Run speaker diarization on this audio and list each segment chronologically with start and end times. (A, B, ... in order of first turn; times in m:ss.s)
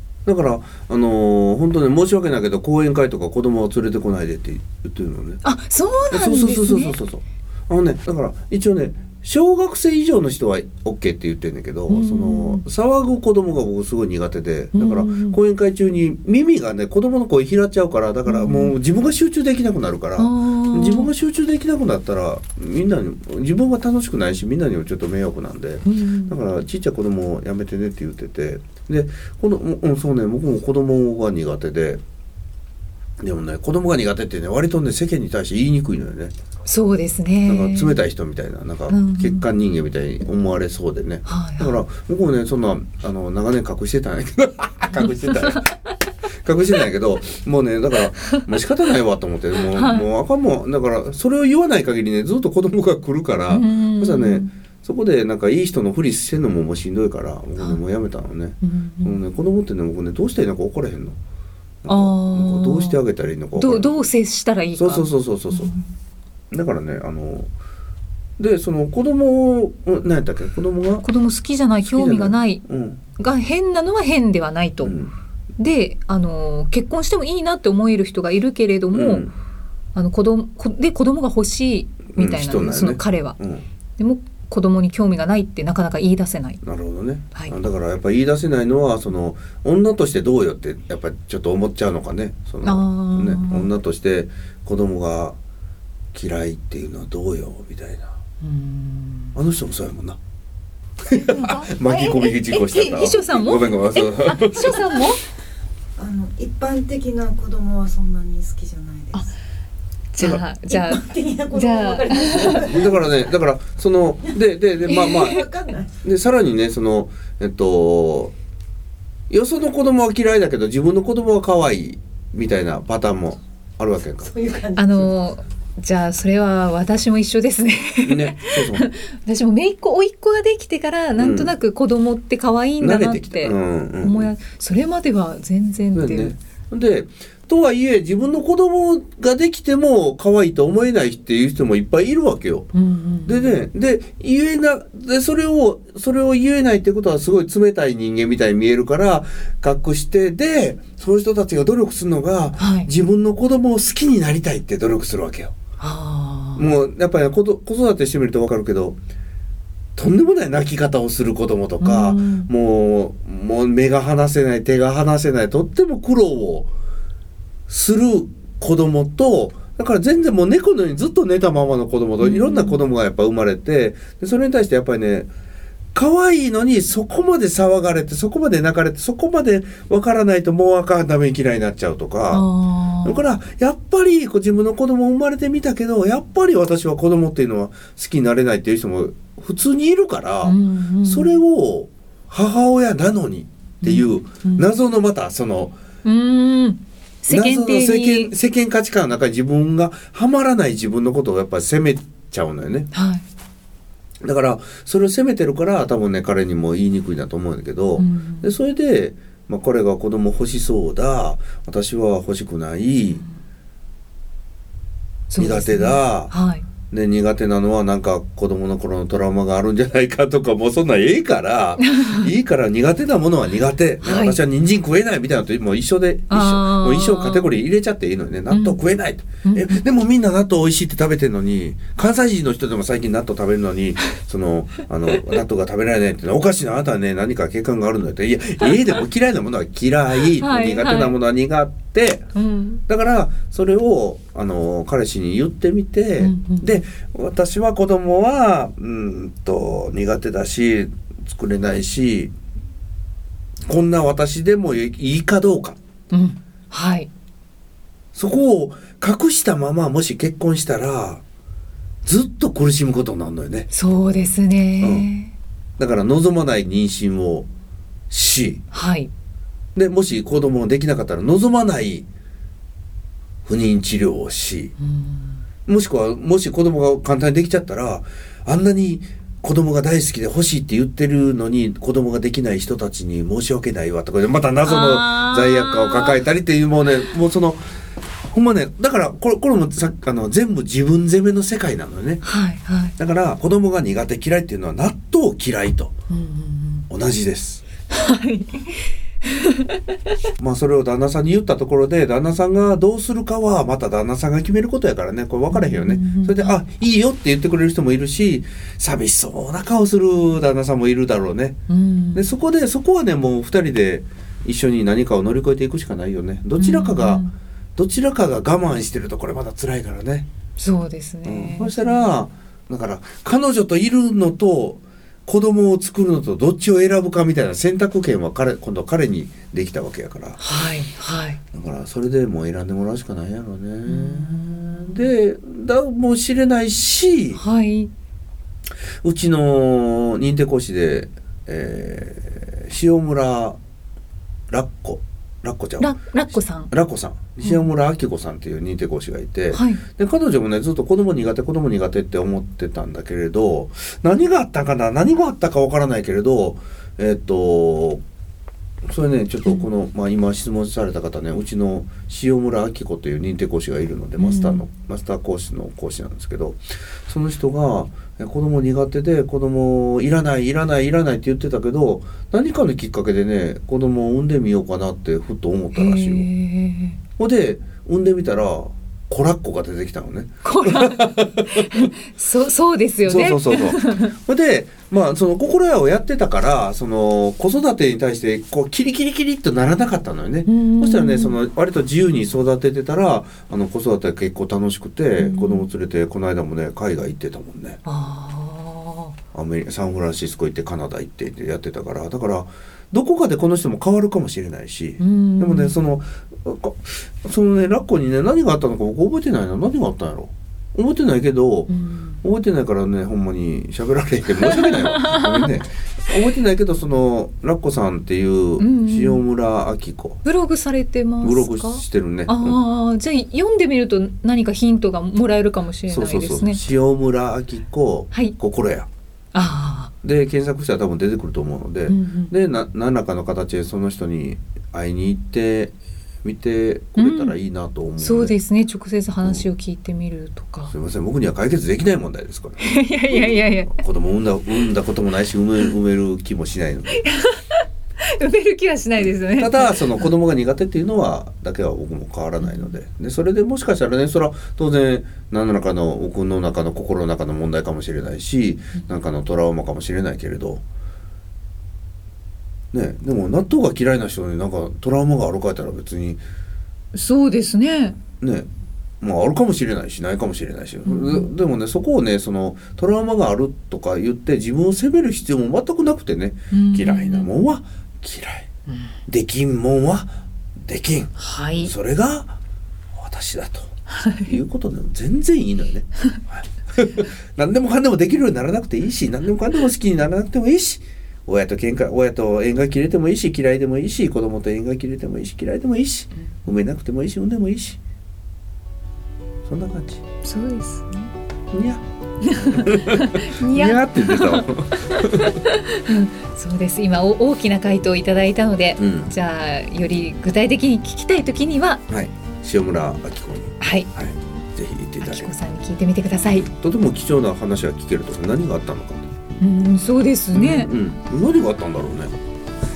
0:00.2-0:05.4 A
0:05.4-0:07.0 B
0:06.1-0:32.0 A
0:11.9-0:12.6 B
0:14.7-0:15.4 B
0:18.2-0:18.7 B
0:20.2-0:21.1 B
0:25.8-0:26.4 B
0:33.2-0:36.3 A
0:36.6-0:38.0 B
0:37.5-0:45.7 A
0:38.9-0:39.5 B
0:41.2-0:41.8 B
0:44.9-0:45.6 B
0:46.4-1:01.2 A
0:49.7-0:50.1 B
0:53.5-0:54.5 B
0:58.6-0:59.2 B
1:01.8-1:03.9 A
1:01.9-1:03.0 B
1:03.5-1:05.9 B
1:04.8-1:05.7 A
1:06.5-1:07.5 A
1:08.4-1:11.0 A
1:11.0-1:12.6 B
1:11.8-1:13.0 A
1:13.2-1:14.9 B
1:14.8-1:15.1 A
1:15.6-1:19.3 B
1:18.9-1:19.3 A
1:19.9-1:23.4 B
1:22.1-1:23.6 A
1:24.0-1:26.6 B
1:26.6-1:35.4 A
1:32.6-1:33.7 B
1:36.1-1:38.1 A
1:38.4-1:39.4 B
1:39.3-1:40.2 A
1:41.0-1:45.0 A
1:41.1-1:45.2 B
1:46.0-1:49.3 C
1:50.1-1:52.8 B
1:50.7-1:53.0 C
1:52.5-1:55.5 A
1:54.8-1:55.9 C
1:54.9-1:55.4 B
1:56.0-1:58.3 A
1:59.3-2:04.4 A
2:04.2-2:05.0 C
2:04.7-2:16.3 B
2:08.0-2:08.9 A
2:11.2-2:11.5 A
2:12.8-2:14.3 A
2:15.9-2:22.7 A
2:22.7-2:23.6 B
2:23.2-2:35.5 A
2:32.6-2:32.9 B
2:35.8-2:36.7 B
2:36.6-2:39.0 A
2:40.0-2:46.7 A
2:41.8-2:42.5 B
2:47.7-2:55.3 A
2:52.2-2:52.8 B
2:55.9-3:02.5 A
3:02.3-3:03.2 B
3:03.0-3:15.7 A
3:10.4-3:11.3 B
3:13.8-3:14.7 B
3:16.0-3:18.3 B
3:17.3-3:22.9 A
3:22.9-3:23.2 B
3:24.2-3:33.2 A
3:28.0-3:28.5 B
3:35.3-3:36.6 B
3:35.4-3:36.3 A
3:36.9-4:02.2 A
3:41.8-3:42.3 B
3:44.0-3:44.4 B
3:46.3-3:47.6 B
3:48.5-3:48.8 B
3:49.4-3:49.8 B
4:00.2-4:01.2 B
4:02.3-4:02.8 B
4:02.9-4:12.3 A
4:06.2-4:06.8 B
4:13.7-4:15.8 A
4:16.1-4:17.1 B
4:18.1-4:21.2 A
4:22.0-4:23.7 A
4:23.7-4:25.3 B
4:24.8-4:25.1 A
4:25.8-4:27.5 A
4:28.1-4:28.6 A
4:28.7-4:29.1 B
4:29.7-4:32.1 A
4:33.4-4:34.7 A
4:34.8-4:35.4 B
4:35.6-4:47.6 A
4:44.6-4:46.2 B
4:48.3-4:52.2 A
4:52.2-4:52.9 B
4:53.0-4:55.9 A
4:56.1-4:56.9 B
4:56.9-4:57.6 A
4:57.9-4:59.8 B
5:00.4-5:11.6 A
5:05.5-5:06.6 B
5:11.7-5:12.3 B
5:12.1-5:17.2 A
5:16.6-5:17.3 B
5:17.8-5:20.3 A
5:20.6-5:22.1 B
5:21.2-5:30.4 A
5:30.4-5:31.4 B
5:31.5-5:37.4 A
5:33.8-5:35.1 B
5:37.3-5:37.9 B
5:39.0-5:43.6 A
5:44.5-5:45.9 A
5:45.8-5:46.7 B
5:46.7-5:58.0 A
5:47.4-5:47.7 B
5:49.5-5:49.8 B
5:58.8-6:16.3 A
6:04.2-6:04.6 B
6:15.7-6:17.0 B
6:17.2-6:21.8 A
6:20.4-6:24.1 B
6:23.0-6:37.8 A
6:30.4-6:31.4 B
6:35.2-6:35.7 B
6:37.8-6:39.1 B
6:39.3-6:51.7 A
6:45.0-6:45.8 B
6:51.7-6:52.2 B
6:52.2-7:00.2 A
6:54.4-6:55.5 B
6:58.6-6:59.2 B
7:00.2-7:06.6 B
7:01.2-7:02.6 A
7:05.9-7:08.9 A
7:09.3-7:09.9 B
7:10.0-7:18.3 A
7:11.9-7:12.3 B
7:17.0-7:17.3 B
7:18.0-7:20.7 B
7:19.2-7:19.4 A
7:20.7-7:27.0 A
7:22.6-7:23.8 B
7:27.0-7:30.1 B
7:29.3-7:40.6 A
7:32.4-7:32.7 B
7:42.7-7:46.2 A
7:46.9-7:48.0 B
7:48.2-7:48.5 A
7:49.0-7:58.5 A
7:50.8-7:51.3 B
7:56.5-7:57.3 B
7:59.1-8:02.4 A
8:01.2-8:01.7 B
8:02.9-8:17.8 A
8:03.9-8:04.3 B
8:19.4-8:20.0 A
8:20.2-8:21.1 B
8:21.5-8:21.8 A
8:22.2-8:31.8 B
8:22.5-8:25.4 A
8:28.8-8:29.1 A
8:31.9-8:35.3 A
8:33.6-8:33.9 B
8:35.0-8:36.5 B
8:36.3-8:39.1 A
8:39.4-8:40.7 B
8:40.3-8:42.2 A